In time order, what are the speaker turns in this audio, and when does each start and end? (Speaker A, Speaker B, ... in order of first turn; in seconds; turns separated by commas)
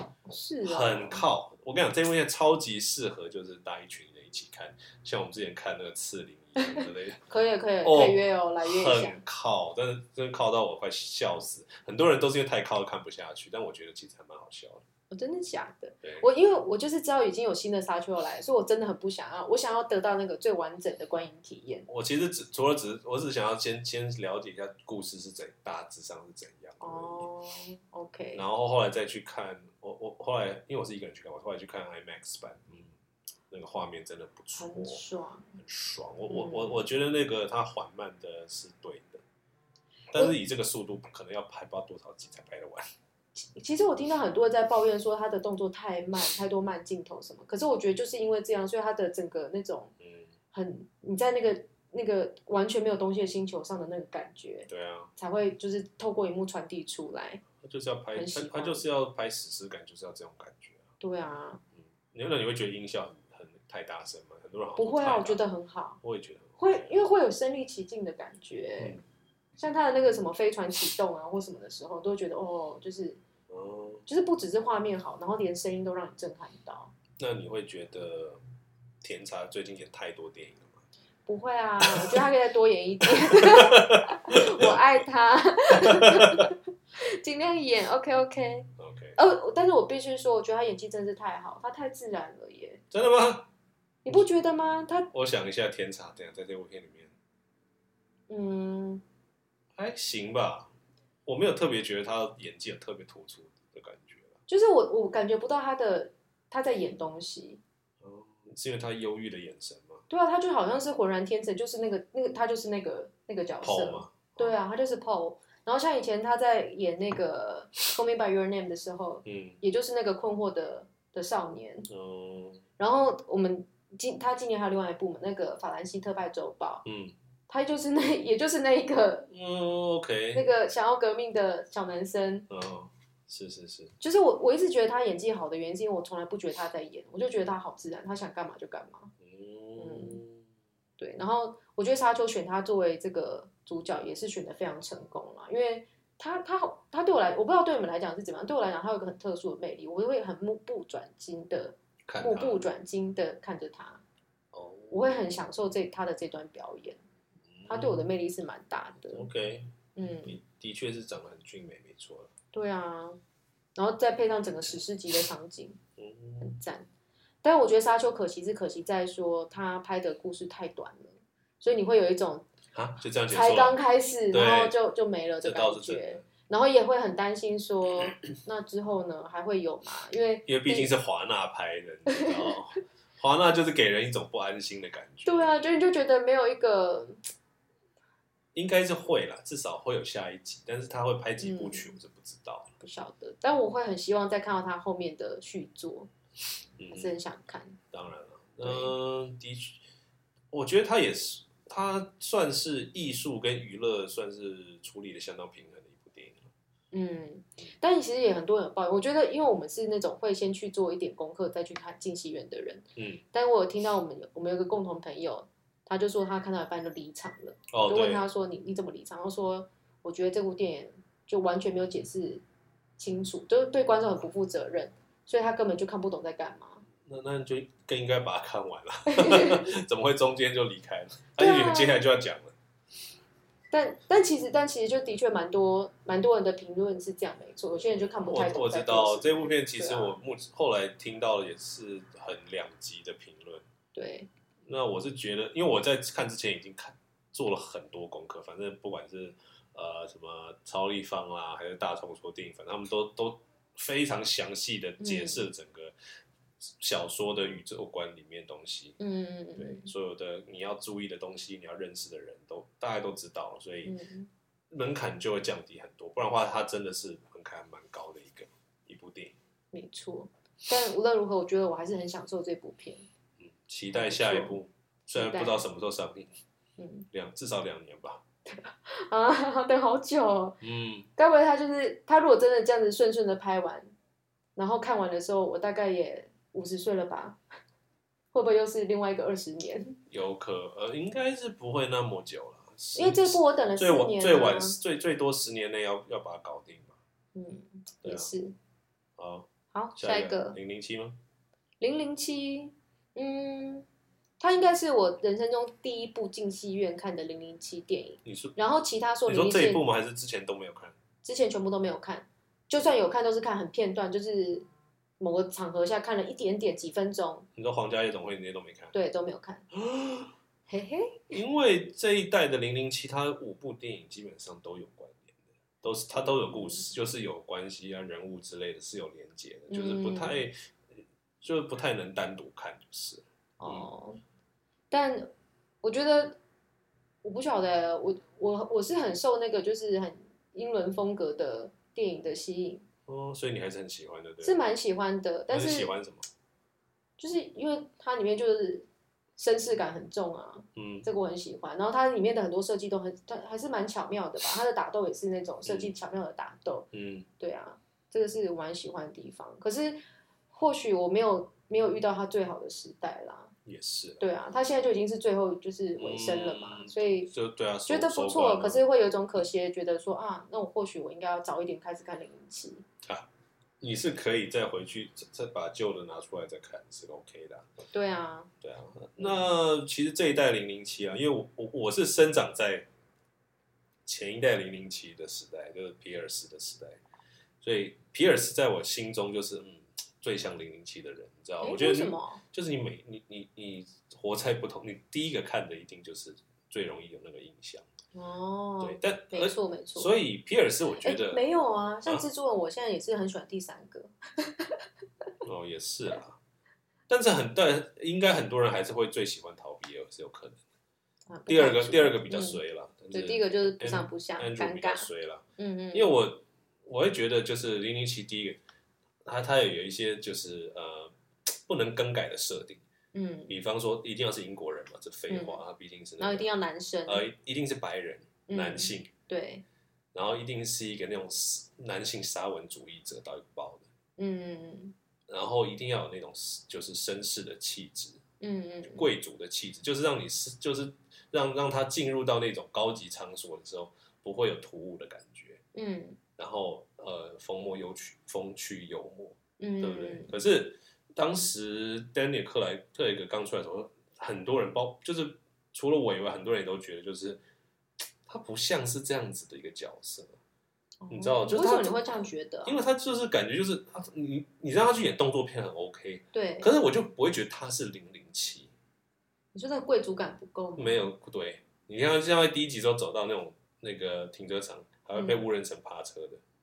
Speaker A: 0.2-1.2, Speaker B: 0.6-7.2, Speaker A: 6.6-9.2, Speaker B: 7.8-14.8, Speaker A: 15.1-21.9, Speaker B: 21.9-27.3, Speaker A: 26.8-28.4, Speaker B: 28.3-32.9, Speaker B: 33.5-35.0, Speaker A: 34.6-35.5, Speaker B: 35.5-39.2, Speaker A: 36.3-36.8, Speaker B: 40.1-42.8, Speaker A: 43.4-49.9, Speaker B: 50.0-50.3, Speaker A: 50.5-57.4, Speaker B: 54.7-55.1, Speaker B: 57.6-60.9, Speaker A: 58.1-58.8, Speaker A: 61.0-61.6, Speaker B: 61.8-65.4, Speaker A: 64.8-66.0, Speaker B: 66.0-66.9, Speaker A: 66.6-69.0, Speaker A: 69.6-73.2, Speaker B: 73.5-74.0, Speaker A: 74.0-76.9, Speaker B: 77.2-78.4, Speaker B: 79.0-80.8, Speaker A: 81.2-92.8, Speaker B: 81.8-82.2, Speaker B: 83.0-84.8, Speaker B: 85.8-86.5, Speaker B: 88.8-89.2, Speaker B: 92.9-93.5, Speaker A: 94.0-95.1, Speaker B: 95.1-97.1, Speaker A: 98.3-99.0, Speaker B: 99.8-100.7, Speaker B: 101.2-104.4, Speaker A: 104.5-107.6, Speaker B: 108.0-110.0, Speaker A: 110.1-121.9, Speaker B: 113.6-114.5, Speaker B: 119.2-119.6, Speaker B: 121.9-122.6, Speaker A: 122.8-126.8, Speaker B: 126.8-127.1, Speaker A: 127.5-129.3, Speaker B: 129.3-130.5, Speaker A: 130.3-132.4, Speaker B: 132.5-133.9, Speaker A: 134.0-139.1, Speaker B: 139.2-140.4, Speaker A: 139.8-140.2, Speaker A: 141.0-154.0, Speaker B: 152.1-152.6, Speaker B: 154.5-155.0, Speaker A: 154.9-157.0, Speaker B: 157.5-158.0, Speaker A: 157.7-159.3, Speaker B: 159.1-159.7, Speaker A: 159.9-160.4, Speaker B: 160.2-162.3, Speaker A: 162.5-163.2, Speaker A: 163.8-165.8, Speaker B: 166.0-166.5, Speaker A: 166.4-166.9, Speaker A: 167.4-172.5, Speaker B: 172.7-173.8, Speaker A: 173.3-180.9, Speaker B: 174.3-174.7, Speaker B: 175.4-176.2, Speaker B: 180.5-185.6, Speaker A: 185.2-187.2, Speaker B: 188.5-192.7, Speaker A: 191.4-191.9, Speaker A: 192.8-196.1, Speaker B: 196.8-197.1, Speaker A: 196.9-197.8, Speaker B: 197.9-199.8, Speaker A: 198.6-198.9, Speaker B: 200.5-206.5, Speaker A: 206.9-222.4, Speaker B: 212.9-213.2, Speaker B: 217.7-218.2, Speaker A: 223.0-226.8, Speaker B: 227.0-232.5, Speaker A: 229.1-229.7, Speaker A: 231.4-232.1, Speaker A: 233.7-240.1, Speaker B: 238.1-243.6, Speaker A: 243.9-244.3, Speaker B: 244.6-255.9, Speaker A: 255.0-255.4, Speaker B: 256.8-259.0, Speaker A: 259.0-259.9, Speaker B: 259.6-263.9, Speaker A: 263.8-264.3, Speaker B: 264.7-269.3, Speaker A: 269.7-273.1, Speaker B: 273.4-276.3, Speaker A: 273.9-275.6, Speaker A: 276.8-277.1, Speaker B: 277.1-278.2, Speaker A: 278.5-280.6, Speaker B: 280.6-281.1, Speaker A: 281.1-283.9, Speaker A: 284.6-287.4, Speaker A: 288.3-290.0, Speaker B: 290.1-296.9, Speaker A: 292.9-294.8, Speaker A: 297.3-298.5, Speaker B: 298.0-298.3, Speaker B: 299.2-301.2, Speaker A: 299.7-300.6, Speaker A: 301.8-303.9, Speaker A: 304.4-309.8, Speaker B: 308.2-308.5, Speaker B: 309.3-310.9, Speaker A: 311.2-314.7, Speaker A: 315.2-317.5, Speaker B: 317.6-318.9, Speaker A: 318.9-319.6, Speaker B: 319.7-320.3, Speaker A: 320.7-321.4, Speaker B: 321.3-330.5, Speaker A: 326.1-326.9, Speaker A: 329.7-330.4, Speaker B: 331.4-333.9, Speaker A: 333.6-334.2, Speaker A: 334.9-336.4, Speaker A: 337.2-342.9, Speaker B: 343.1-344.6, Speaker A: 344.4-345.9, Speaker B: 345.5-346.2, Speaker A: 347.2-356.9, Speaker B: 350.8-351.1, Speaker B: 355.6-355.9, Speaker B: 356.9-357.2, Speaker A: 357.4-360.0, Speaker A: 360.5-363.5, Speaker B: 363.6-364.2, Speaker A: 364.2-367.3, Speaker B: 366.0-368.8, Speaker A: 367.9-372.9, Speaker B: 373.8-377.7, Speaker A: 377.9-378.5, Speaker B: 378.6-382.9, Speaker A: 379.2-379.5, Speaker B: 384.1-387.0, Speaker B: 387.6-397.9, Speaker A: 391.6-392.4, Speaker A: 398.1-400.1, Speaker B: 398.8-401.4, Speaker A: 401.0-404.8, Speaker B: 405.4-406.4, Speaker B: 407.1-410.6, Speaker A: 411.3-416.1, Speaker B: 411.5-418.6, Speaker B: 419.2-422.8, Speaker A: 423.1-423.5, Speaker B: 423.5-426.5, Speaker A: 425.3-425.6, Speaker A: 426.2-427.2, Speaker B: 427.1-429.1, Speaker A: 428.5-429.6, Speaker B: 430.1-433.9, Speaker A: 434.2-434.9, Speaker B: 435.3-438.2, Speaker A: 438.4-439.1, Speaker B: 438.9-445.6, Speaker A: 445.7-446.2, Speaker B: 446.4-457.4, Speaker A: 449.6-450.3, Speaker B: 458.2-460.4, Speaker A: 461.0-462.8, Speaker B: 461.1-468.7, Speaker A: 466.3-466.7, Speaker A: 469.5-471.1, Speaker B: 470.8-476.4, Speaker A: 475.1-475.4